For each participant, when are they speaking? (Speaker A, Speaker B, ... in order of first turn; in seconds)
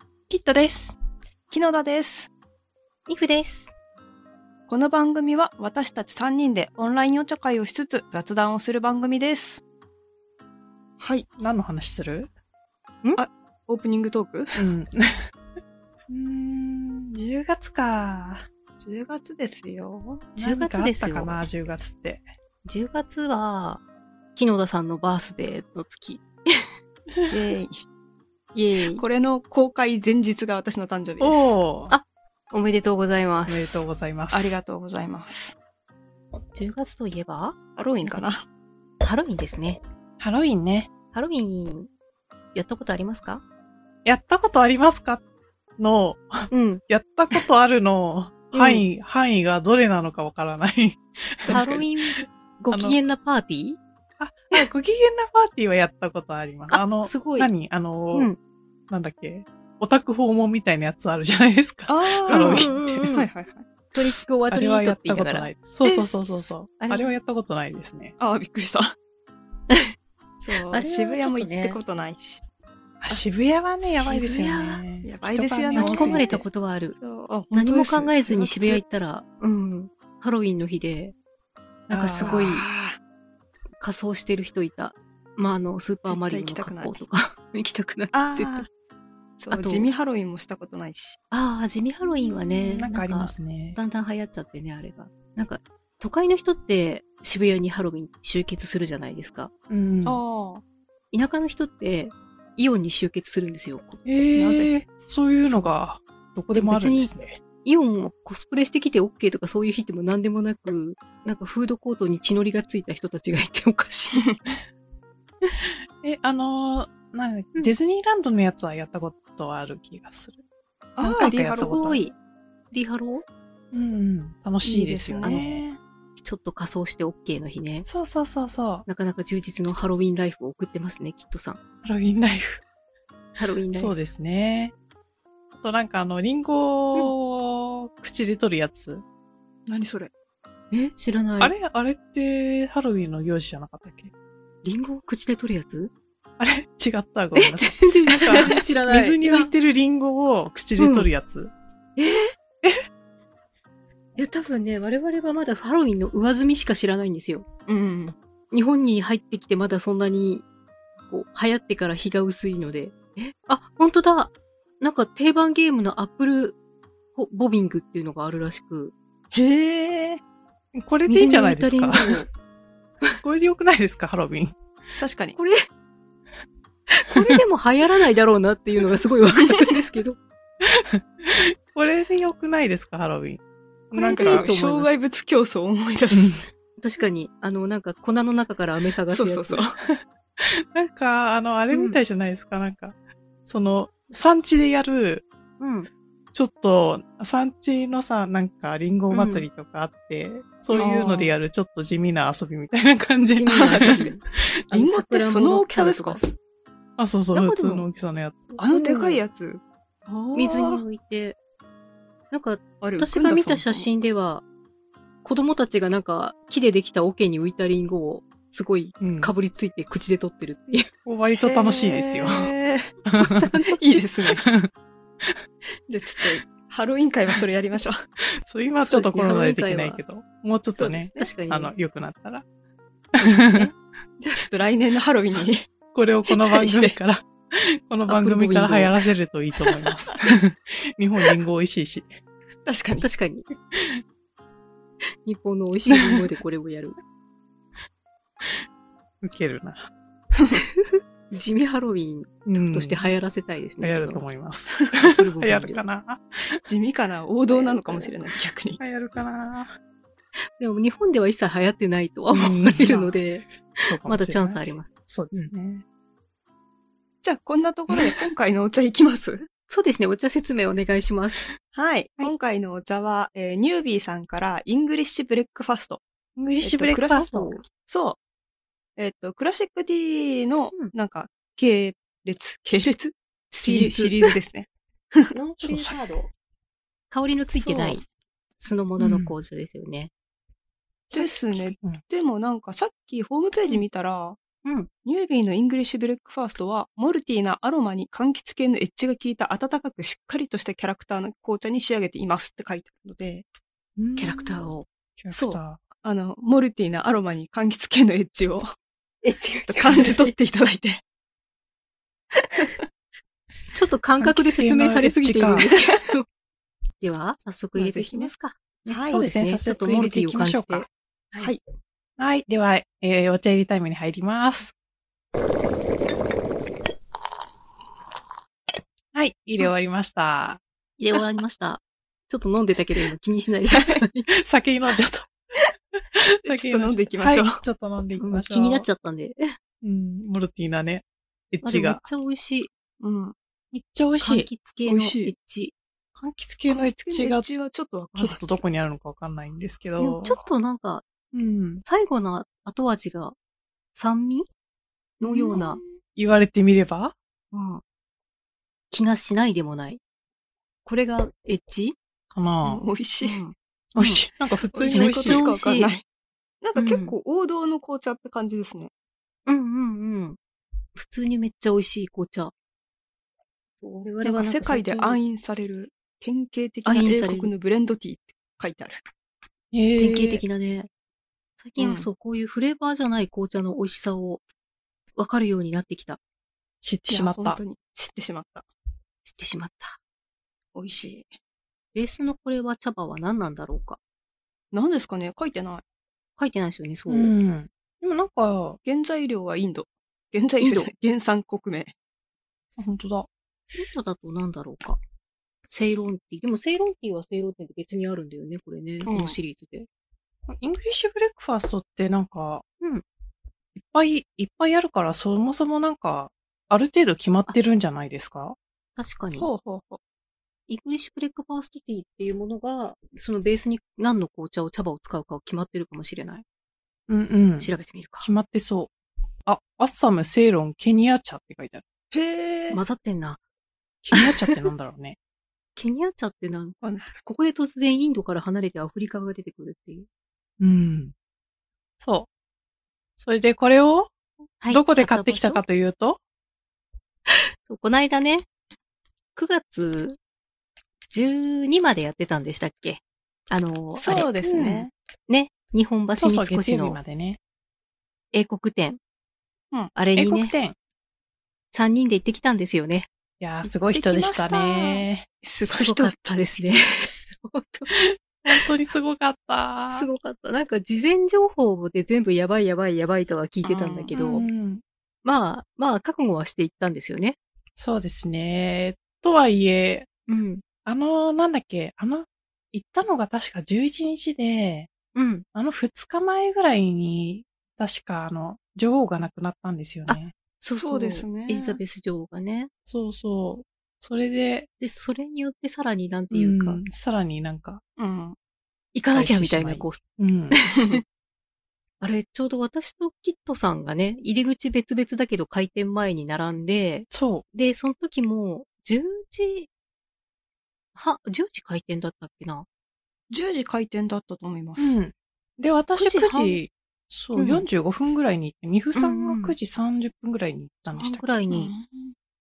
Speaker A: 0.3-1.0, 11.4-12.3, 14.6-15.3, 16.1-18.5, 20.4-22.2, 31.2-31.9, 33.5-34.5, 40.2-40.9, 44.0-45.2, 45.8-53.0, 54.2-58.3, 58.9-63.1, 64.5-68.1, 73.0-76.3, 81.9-82.5, 92.3-93.8, 99.7-100.2, 104.1-107.4, 115.6-120.4, 121.0-122.0, 123.7-125.8, 127.9-128.9, 131.8-132.6, 133.7-134.7, 135.6-139.0, 141.4-144.1, 146.4-151.5, 170.7-172.3, 173.2-174.6, 177.2-177.4, 180.6-183.4, 183.9-184.5, 186.1-186.5, 190.4-195.3, 196.3-204.5, 207.0-208.5, 219.0-219.3, 221.1-222.5, 223.1-223.5, 224.3-224.7, 228.2-232.4, 233.2-233.7, 235.3-242.1, 243.7-244.0, 245.9-246.2, 249.2-249.9, 252.4-253.1, 253.8-256.6, 258.8-259.8, 262.3-263.2, 263.8-265.8, 267.9-268.2, 276.4-277.6, 283.6-284.3, 285.6-286.0, 289.0-289.3, 291.1-292.0, 304.0-305.8, 314.2-315.7, 319.1-320.9, 322.2-324.7, 329.1-330.6, 334.3-335.3, 336.1-338.9, 339.8-342.0, 343.7-344.5, 346.1-347.4, 348.2-350.4, 351.3-351.8, 355.2-357.1, 362.3-362.8, 363.9-365.5, 379.7-380.4, 386.8-387.6, 397.1-398.8, 402.8-403.3, 410.5-412.6, 413.8-418.6, 427.1-428.9, 429.5-431.8, 434.0-435.2, 440.6-441.1, 442.0-442.3, 443.2-444.1, 444.7-446.2, 454.4-454.9, 456.2-457.4, 460.1-460.8, 463.4-465.3, 467.9-470.1, 474.1-474.8, 477.8-480.1, 480.9-484.9, 485.5-490.3, 492.9-494.7, 496.3-497.8, 499.1-500.6, 507.1-507.4, 514.8-521.2
Speaker B: 1.5-2.3, 4.7-9.6, 11.0-11.3, 13.2-14.6, 18.8-20.3, 27.3-27.8, 28.9-31.5, 34.3-35.6, 37.8-38.5, 51.5-51.9, 61.9-63.7, 65.8-66.5, 68.2-69.0, 70.4-72.4, 75.0-78.8, 82.2-83.0, 86.1-87.0, 88.1-88.7, 89.4-91.2, 100.1-100.6, 104.4-104.7, 121.0-121.8, 124.6-125.6, 139.7-140.1, 157.7-158.1, 169.3-170.2, 175.0-175.4, 184.0-186.3, 189.1-189.8, 200.7-201.3, 203.6-204.2, 204.7-206.2, 208.6-210.8, 212.8-213.9, 221.4-222.9, 223.8-224.4, 225.9-228.0, 230.8-231.3, 234.3-235.7, 236.3-237.0, 242.7-243.1, 256.6-258.8, 267.2-269.5, 271.7-276.0, 276.6-278.2, 279.0-285.3, 287.6-288.0, 291.1-294.4, 295.1-303.5, 305.3-308.8, 309.7-311.0, 312.4-312.8, 317.8-318.3, 318.9-319.2, 333.7-334.0, 336.4-337.6, 343.0-343.4, 344.9-345.3, 346.7-348.5, 362.7-363.4, 364.7-366.1, 366.6-368.9, 374.2-379.0, 381.8-382.1, 387.1-388.7, 390.8-391.4, 394.7-395.8, 398.8-401.9, 409.1-409.4, 419.5-419.8, 432.1-432.8, 436.8-437.2, 454.0-454.9, 463.9-466.4, 473.6-474.1, 490.7-491.8, 498.0-498.4, 513.3-515.0, 521.5-522.1
Speaker C: 3.1-3.7, 20.4-21.4, 22.7-23.8, 24.4-26.7, 28.5-29.0, 31.9-33.8, 36.5-38.2, 39.0-39.8, 41.1-41.9, 42.5-43.4, 46.5-47.4, 48.5-48.9, 51.5-53.8, 56.7-57.5, 58.1-58.4, 62.3-63.3, 63.9-65.5, 66.8-67.1, 69.7-70.0, 70.7-71.8, 73.8-74.8, 75.8-77.0, 77.5-81.2, 81.9-82.7, 83.8-88.7, 89.5-89.9, 91.3-99.5, 101.1-104.0, 105.5-105.7, 106.5-107.1, 107.6-114.3, 121.5-122.2, 122.7-123.3, 125.2-125.5, 126.2-127.9, 128.9-131.6, 133.4-133.9, 140.7-141.5, 144.6-145.9, 147.3-149.5, 150.8-151.1, 152.0-152.3, 154.2-157.7, 158.5-160.4, 161.1-166.6, 167.2-168.9, 171.1-172.3, 175.4-175.7, 176.9-180.2, 183.9-185.0, 186.8-189.7, 191.7-192.0, 195.6-195.9, 199.1-199.4, 203.3-204.2, 204.7-206.3, 207.3-207.9, 208.5-209.2, 210.3-211.4, 212.3-214.4, 215.2-220.9, 223.2-224.0, 228.8-230.0, 231.2-231.7, 233.4-234.5, 238.1-239.0, 243.0-243.5, 245.2-247.0, 250.6-254.2, 255.1-255.8, 257.5-258.1, 260.6-265.5, 269.7-271.5, 277.1-277.6, 283.6-284.1, 285.3-286.3, 287.1-288.1, 288.6-290.1, 294.6-294.9, 304.2-304.9, 309.2-310.3, 313.7-316.2, 317.0-321.5, 331.0-334.3, 338.2-339.6, 341.6-342.7, 344.2-345.7, 350.0-351.0, 351.8-353.4, 353.9-354.5, 355.2-355.8, 357.5-357.8, 358.9-360.0, 360.9-362.0, 363.2-364.2, 364.9-365.9, 366.8-367.1, 369.5-370.4, 370.9-372.5, 373.8-375.2, 376.9-377.5, 380.0-380.9, 381.6-384.4, 385.2-386.2, 389.2-390.0, 391.9-394.0, 396.4-397.3, 400.6-400.9, 403.7-405.0, 405.7-409.9, 419.0-419.5, 420.7-426.4, 427.6-428.3, 432.7-433.4, 434.1-434.5, 435.8-440.1, 444.6-445.6, 447.3-448.5, 449.4-450.2, 451.1-454.3, 455.3-457.0, 458.3-459.0, 459.9-460.5, 461.7-463.1, 465.6-467.9, 469.9-474.5, 475.2-477.4, 480.3-480.6, 485.1-485.4, 490.1-492.7, 494.8-496.8, 498.9-500.0, 500.5-501.0, 502.0-509.7, 510.9-512.7, 516.0-516.6, 517.4-517.6, 519.0-519.6, 520.9-521.7